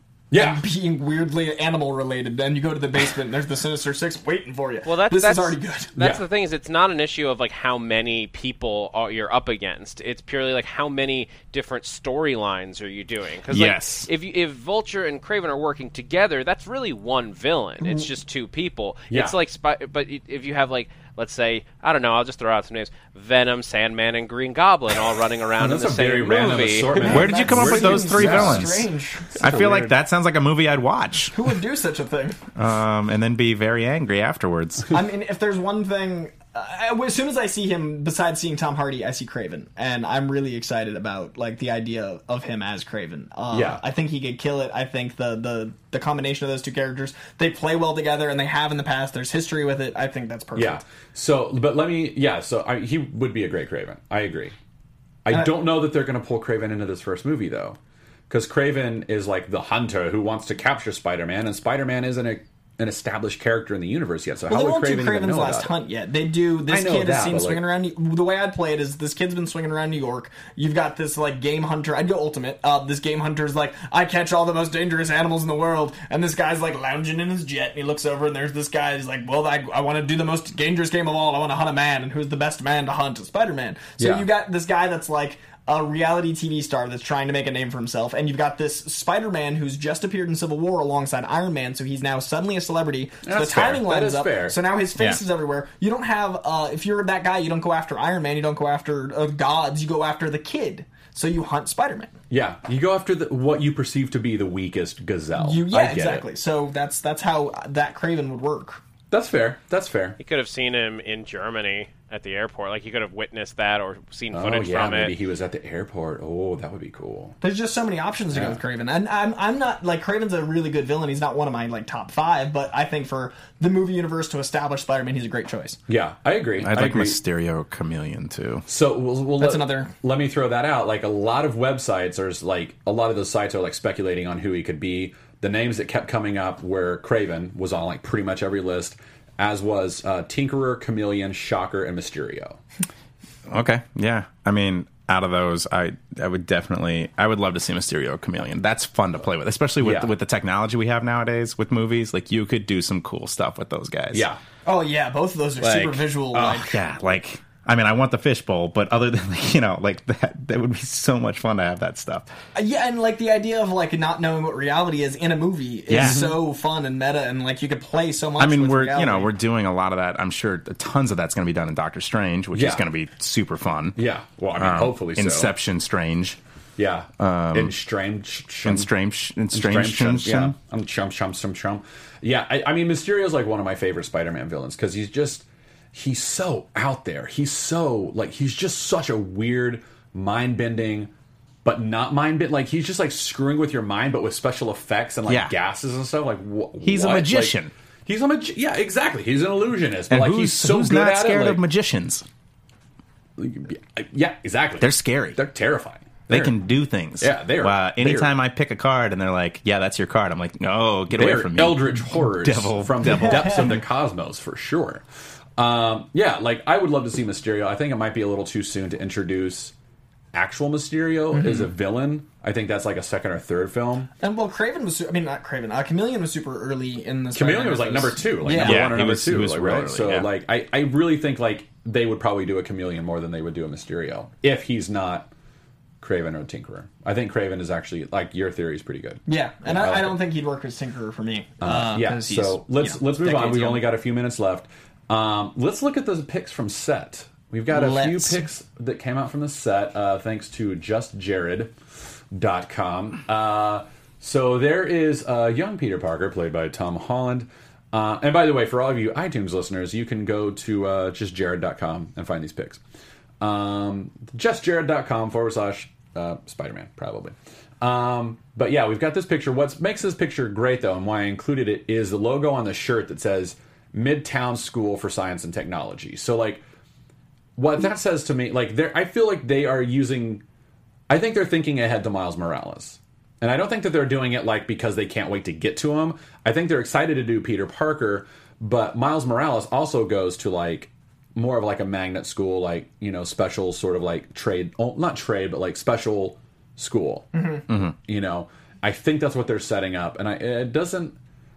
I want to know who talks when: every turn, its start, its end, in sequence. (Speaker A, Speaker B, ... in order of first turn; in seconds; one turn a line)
Speaker A: 0.3-0.6
Speaker B: 0.3-5.9
Speaker C: 4.8-27.1
Speaker A: 6.0-6.2
Speaker D: 13.5-14.1
Speaker A: 19.1-19.4
Speaker A: 25.6-28.8
Speaker B: 26.9-29.7
Speaker D: 27.0-28.9
Speaker A: 29.4-29.9
Speaker D: 29.4-31.4
Speaker B: 31.3-32.4
Speaker D: 32.5-34.9
Speaker B: 34.9-50.8
Speaker A: 43.5-43.8
Speaker A: 50.5-54.5
Speaker A: 55.2-57.8
Speaker A: 58.3-65.7
Speaker B: 64.5-102.1
Speaker A: 66.7-67.6
Speaker A: 84.0-84.2
Speaker A: 93.2-94.6
Speaker A: 102.3-106.3
Speaker B: 105.4-108.8
Speaker A: 109.1-110.2
Speaker C: 110.2-115.1
Speaker A: 114.3-117.4
Speaker B: 117.4-125.8
Speaker A: 118.3-118.6
Speaker A: 125.9-127.2
Speaker D: 126.6-128.6
Speaker A: 128.7-142.6
Speaker B: 129.4-129.9
Speaker D: 143.5-154.3
Speaker A: 149.8-150.1
Speaker A: 154.1-154.4
Speaker B: 154.6-156.8
Speaker D: 155.6-162.3
Speaker B: 162.5-169.3
Speaker D: 165.9-166.3
Speaker A: 166.0-166.3
Speaker D: 168.4-174.0
Speaker A: 172.5-172.8
Speaker A: 173.9-175.5
Speaker D: 174.6-176.4
Speaker A: 176.8-178.9
Speaker D: 177.2-177.7
Speaker D: 178.6-180.5
Speaker A: 179.5-191.1
Speaker A: 191.6-201.6
Speaker D: 195.3-195.5
Speaker D: 196.8-197.7
Speaker D: 200.1-202.2
Speaker A: 203.4-206.5
Speaker D: 204.8-205.4
Speaker D: 206.3-213.8
Speaker A: 207.2-208.3
Speaker A: 211.1-215.0
Speaker B: 213.0-213.7
Speaker A: 215.6-219.7
Speaker A: 220.3-224.1
Speaker B: 221.3-221.7
Speaker B: 224.2-228.9
Speaker A: 227.3-235.3
Speaker D: 228.5-230.3
Speaker A: 236.0-240.2
Speaker B: 239.2-243.8
Speaker A: 241.6-251.7
Speaker B: 247.7-248.4
Speaker A: 252.3-262.8
Speaker A: 263.4-276.6
Speaker A: 277.6-280.4
Speaker A: 281.1-297.3
Speaker B: 297.3-297.6
Speaker D: 297.7-297.9
Speaker A: 298.0-301.1